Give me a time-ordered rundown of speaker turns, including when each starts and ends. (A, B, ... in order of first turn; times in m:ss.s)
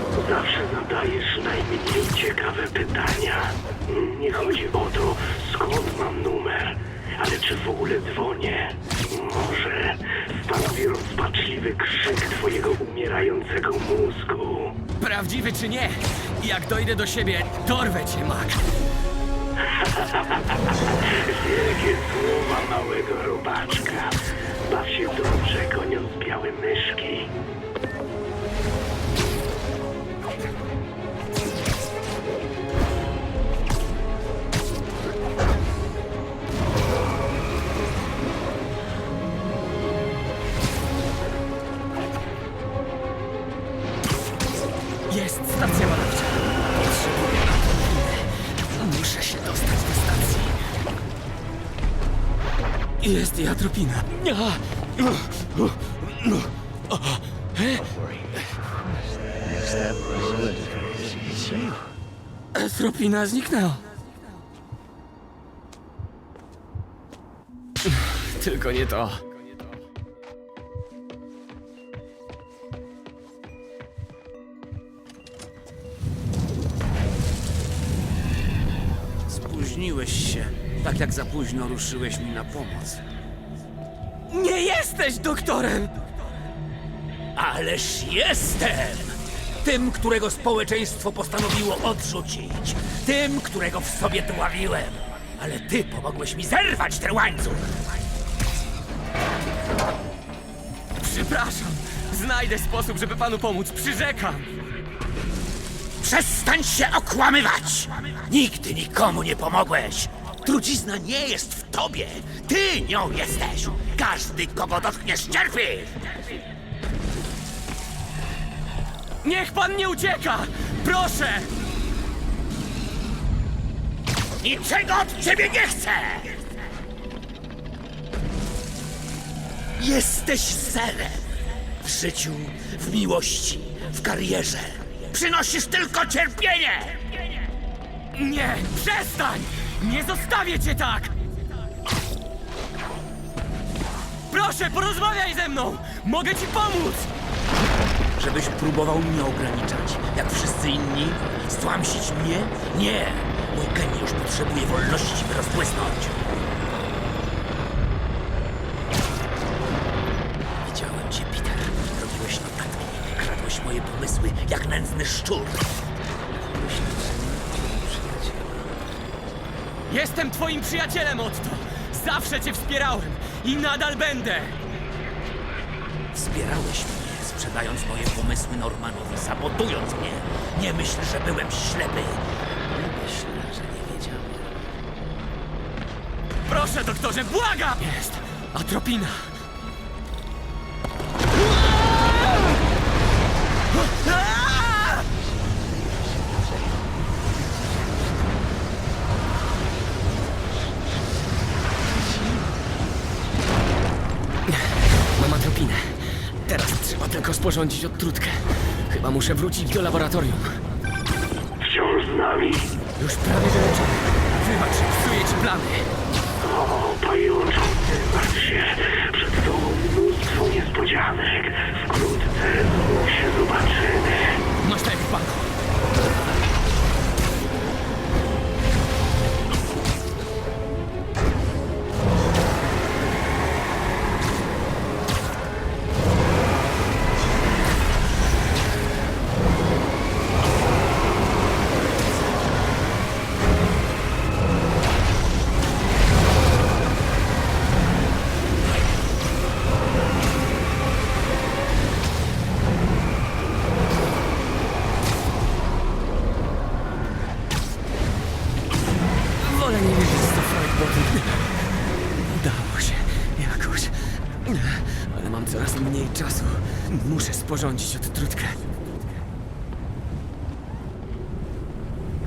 0:00.1-0:14.8 A
0:15.0-0:18.7 B
0:19.8-0:20.4 A
0:21.0-0:27.3 A
0:45.1-0:50.7 B
0:53.0-0:58.0 B
0:59.5-1:01.8 C
1:02.5-1:04.0 B
1:07.9-1:09.3 B
1:19.2-1:23.0 C
1:24.3-1:26.1 B
1:27.4-1:37.8 C
1:41.0-1:44.5 B
1:46.0-1:56.2 C
1:59.2-2:01.5 B
2:04.4-2:06.4 C
2:09.8-2:17.2 C
2:18.1-2:21.2 B
2:24.3-2:27.1 B
2:28.2-2:36.3 C
2:40.6-2:48.9 C
2:49.9-2:54.6 B
2:56.1-3:04.5 C
3:06.5-3:09.3 B
3:11.6-3:12.5 B
3:13.7-3:15.0 B
3:24.5-3:30.6 B
3:31.6-3:32.7 A
3:33.0-3:35.9 B
3:36.4-3:44.4 A
3:44.6-3:45.5 B
4:19.4-4:21.5 B
4:22.3-4:28.7 B